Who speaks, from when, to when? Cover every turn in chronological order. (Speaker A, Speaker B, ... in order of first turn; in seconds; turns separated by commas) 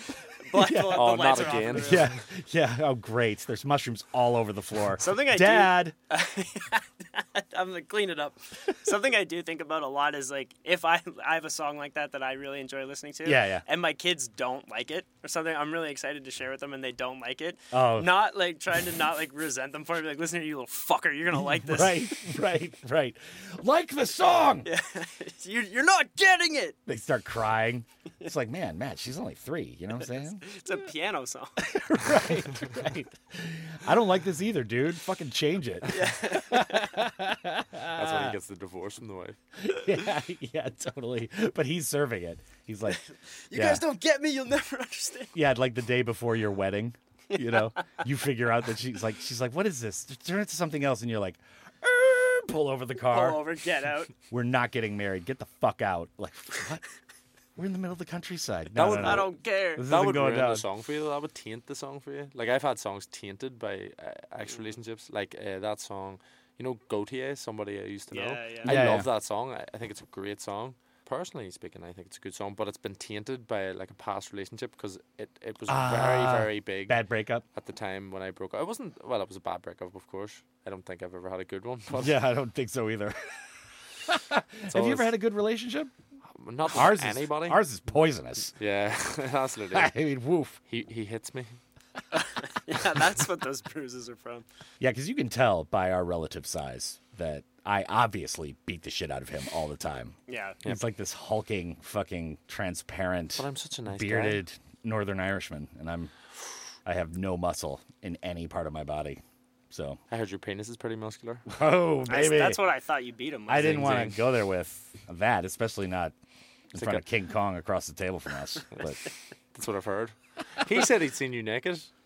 Speaker A: 0.5-2.1, Speaker B: 0.5-1.1, Speaker C: 0.9-2.2, Speaker B: 1.8-5.9, Speaker A: 5.0-22.1, Speaker B: 13.2-13.6, Speaker B: 17.7-18.1, Speaker B: 21.6-24.7, Speaker A: 24.6-26.8, Speaker B: 26.9-30.4, Speaker A: 30.4-31.5, Speaker B: 31.6-38.3, Speaker A: 35.9-36.9, Speaker C: 37.9-39.4, Speaker B: 39.6-43.0, Speaker A: 42.9-45.3, Speaker B: 43.5-43.8, Speaker B: 45.3-53.4, Speaker A: 47.4-47.8, Speaker A: 53.1-54.1, Speaker B: 54.3-56.8, Speaker B: 57.5-60.6, Speaker C: 58.7-77.0, Speaker A: 58.9-59.9, Speaker A: 68.1-68.7, Speaker B: 68.7-69.1, Speaker B: 75.7-77.4, Speaker C: 77.5-82.1, Speaker B: 81.9-83.5, Speaker B: 84.1-85.9, Speaker C: 84.7-85.1, Speaker C: 86.3-87.6, Speaker B: 86.7-88.5, Speaker C: 88.6-89.9, Speaker B: 89.7-90.5, Speaker C: 90.7-91.6, Speaker A: 92.1-94.4, Speaker B: 94.8-106.1, Speaker A: 100.3-100.6, Speaker C: 103.4-104.4, Speaker B: 106.8-110.0, Speaker C: 110.1-111.5, Speaker B: 111.5-112.6, Speaker A: 112.1-114.0, Speaker B: 113.5-116.1, Speaker C: 113.6-114.2, Speaker B: 116.7-119.0, Speaker C: 116.7-117.0, Speaker C: 119.5-121.9